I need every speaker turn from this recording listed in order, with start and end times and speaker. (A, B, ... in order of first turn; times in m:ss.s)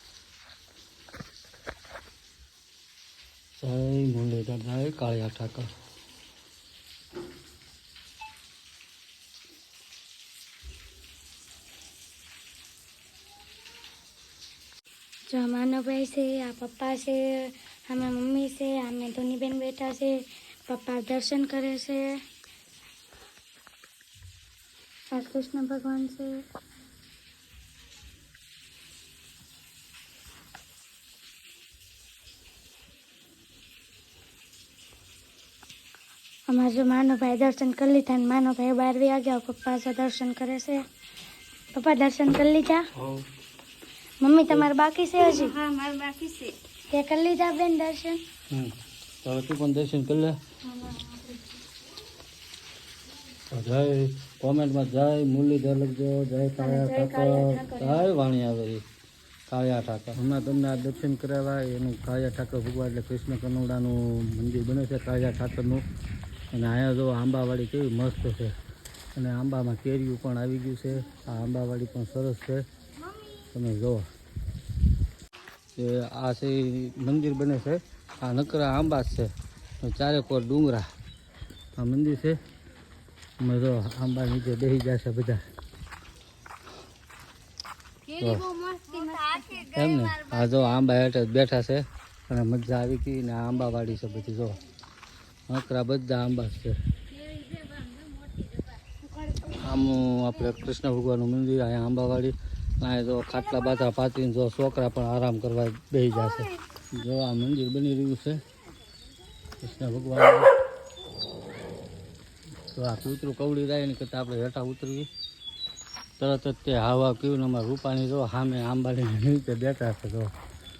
0:03.6-0:05.7 A
0:15.3-0:22.1 B
0:25.1-0:26.4 B
0:36.5-0:40.8 B
0:41.7-0:42.8 B
0:43.0-0:43.2 A
0:44.2-0:45.6 B
0:45.2-0:46.5 C
0:46.9-0:48.2 B
0:48.5-0:50.4 A
0:50.7-0:51.4 B
0:53.5-0:58.8 A
0:56.6-0:58.0 B
0:59.5-1:05.8 A
1:06.5-1:08.5 A
1:09.1-1:12.6 A
1:13.5-1:14.1 A
1:15.8-1:19.3 A
1:19.8-1:20.8 A
1:21.8-1:22.4 A
1:23.4-1:25.4 A
1:28.1-1:29.7 C
1:28.2-1:28.4 A
1:28.9-1:30.8 B
1:29.7-1:34.6 A
1:35.5-1:36.8 A
1:37.1-1:38.8 C
1:39.4-1:48.4 A
1:46.2-1:46.5 C
1:49.6-1:50.5 A
1:52.7-1:55.1 A
1:56.2-2:00.3 A